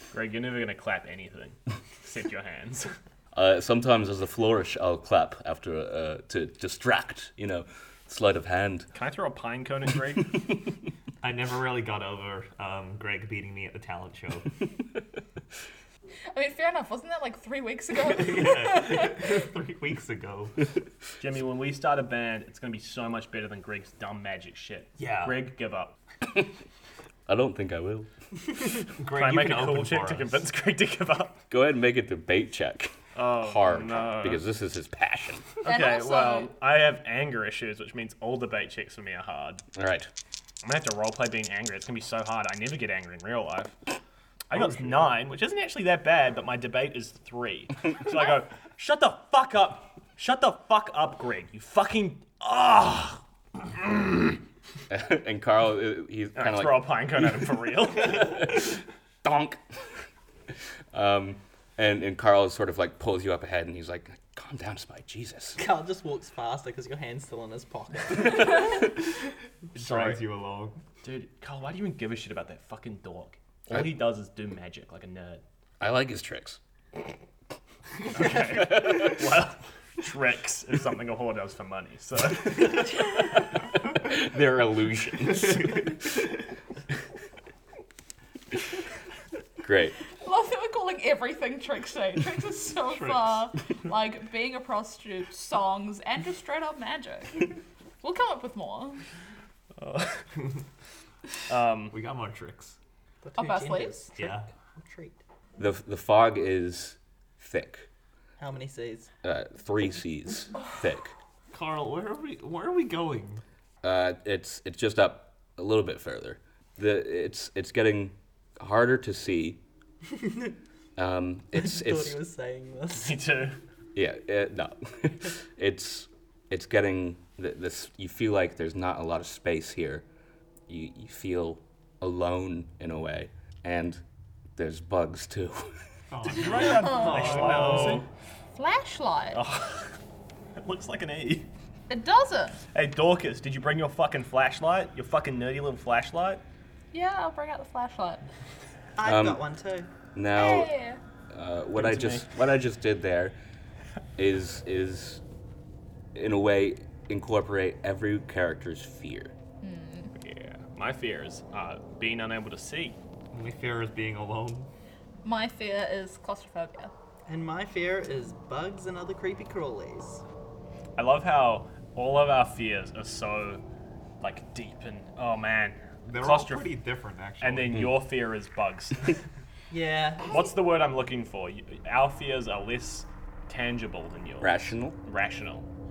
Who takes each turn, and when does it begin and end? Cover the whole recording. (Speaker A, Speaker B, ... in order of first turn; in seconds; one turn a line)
Speaker A: 0.1-2.9
Speaker B: 3.3-8.9
Speaker A: 8.9-10.4
Speaker C: 11.2-14.4
Speaker D: 16.3-19.4
Speaker C: 18.0-20.6
Speaker A: 21.2-25.9
Speaker C: 25.0-25.5
Speaker B: 27.3-28.1
Speaker C: 29.0-30.4
Speaker A: 29.1-31.4
Speaker B: 31.5-35.5
Speaker A: 33.1-34.4
Speaker A: 35.6-39.6
Speaker D: 35.6-36.5
Speaker B: 39.7-40.1
Speaker A: 40.6-43.8
Speaker A: 44.5-54.4
Speaker B: 54.9-57.2
Speaker A: 56.3-58.6
Speaker B: 58.1-58.7
Speaker B: 59.2-59.6
Speaker B: 60.9-65.6
Speaker E: 65.6-68.8
Speaker C: 69.7-70.8
Speaker A: 71.0-75.4
Speaker B: 75.8-76.6
Speaker A: 78.1-83.1
Speaker B: 78.6-79.0
Speaker B: 83.9-85.8
Speaker B: 89.6-89.9
Speaker D: 90.2-99.0
Speaker C: 92.9-93.3
Speaker A: 99.8-100.2
Speaker A: 101.5-101.9
Speaker C: 101.9-102.8
Speaker E: 103.2-105.2
Speaker D: 103.4-104.1
Speaker C: 104.2-104.5
Speaker B: 105.6-107.9
Speaker E: 108.4-109.1
Speaker B: 109.2-111.1
Speaker C: 111.5-113.4
Speaker B: 113.8-119.6
Speaker B: 121.0-122.2
Speaker E: 121.5-123.2
Speaker A: 122.9-123.5
Speaker B: 123.9-130.1
Speaker B: 130.7-134.0
Speaker B: 134.6-135.8
Speaker C: 136.1-138.1
Speaker A: 136.2-138.1
Speaker D: 136.6-137.3
Speaker D: 138.5-139.4
Speaker A: 139.3-139.9
Speaker A: 140.6-141.5
Speaker D: 141.9-142.6
Speaker A: 142.7-146.4
Speaker D: 146.9-148.2
Speaker E: 149.0-149.9
Speaker B: 149.0-149.4
Speaker B: 150.1-150.7
Speaker D: 150.3-151.0
Speaker B: 151.3-153.4
Speaker A: 151.8-152.3
Speaker B: 154.2-155.2
Speaker B: 156.1-159.3
Speaker D: 159.6-160.1
Speaker A: 160.2-163.0
Speaker C: 163.3-164.7
Speaker D: 165.2-166.9
Speaker E: 167.2-170.2
Speaker A: 170.9-173.6
Speaker A: 174.2-176.7
Speaker C: 176.0-177.8
Speaker A: 177.4-179.2
Speaker E: 179.7-180.4
Speaker A: 180.3-185.7
Speaker B: 184.4-185.0